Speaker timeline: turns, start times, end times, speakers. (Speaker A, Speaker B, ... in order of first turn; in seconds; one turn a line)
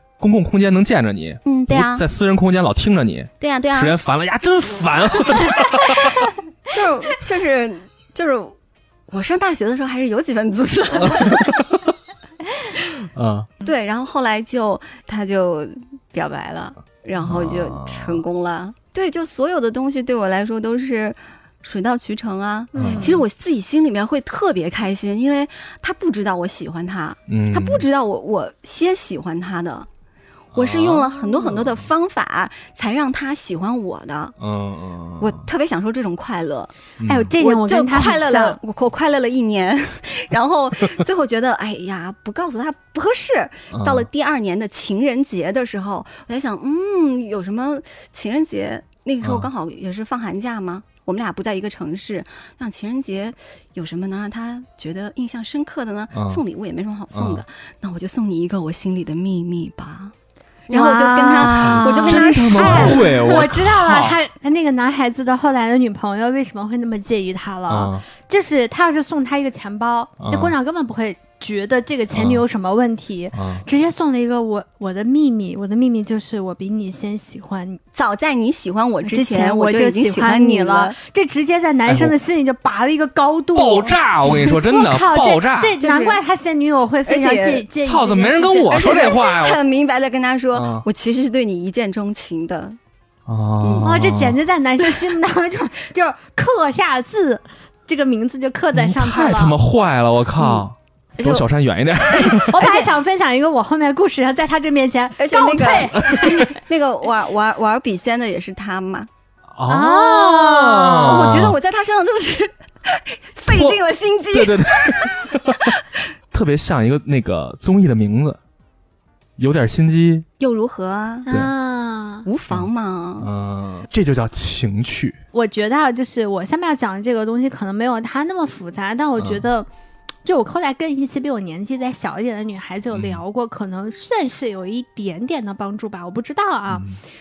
Speaker A: 0.2-6.3
Speaker B: 1.4-2.0
Speaker B: 3.4-4.0
Speaker B: 6.7-8.6
Speaker B: 9.1-11.5
Speaker A: 11.0-11.9
Speaker A: 12.8-13.5
Speaker B: 13.6-29.9
Speaker A: 17.2-18.2
Speaker C: 22.7-23.2
Speaker A: 22.8-23.1
Speaker A: 27.3-27.8
Speaker A: 30.5-31.9
Speaker B: 30.5-34.4
Speaker A: 34.4-35.4
Speaker B: 35.2-36.7
Speaker A: 37.0-37.3
Speaker C: 37.1-38.6
Speaker B: 37.4-60.1
Speaker A: 43.7-44.1
Speaker A: 49.2-49.5
Speaker A: 56.1-56.4
Speaker A: 57.1-57.4
Speaker B: 60.7-63.1
Speaker C: 60.7-77.8
Speaker A: 61.4-64.2
Speaker A: 67.7-68.0
Speaker A: 70.2-70.5
Speaker A: 72.1-72.4
Speaker A: 73.3-73.7
Speaker B: 78.0-81.0
Speaker C: 79.0-89.2
Speaker A: 81.9-82.2
Speaker A: 83.5-85.8
Speaker B: 85.8-86.2
Speaker B: 87.1-87.7
Speaker A: 87.8-89.6
Speaker B: 88.7-92.8
Speaker A: 90.5-90.9
Speaker A: 93.3-94.4
Speaker B: 93.6-93.9
Speaker C: 93.8-99.6
Speaker A: 98.7-102.7
Speaker B: 101.2-101.5
Speaker B: 102.1-102.9
Speaker C: 102.5-106.5
Speaker B: 105.2-109.1
Speaker A: 106.0-106.4
Speaker A: 109.5-111.6
Speaker C: 109.7-111.2
Speaker B: 110.7-115.8
Speaker A: 113.5-115.7
Speaker A: 116.3-118.4
Speaker A: 119.4-120.3
Speaker B: 120.4-121.3
Speaker C: 121.3-122.3
Speaker B: 122.2-123.3
Speaker A: 123.2-125.2
Speaker C: 125.3-129.7
Speaker A: 129.2-129.5
Speaker C: 130.2-136.9
Speaker A: 132.9-133.2
Speaker A: 136.7-137.0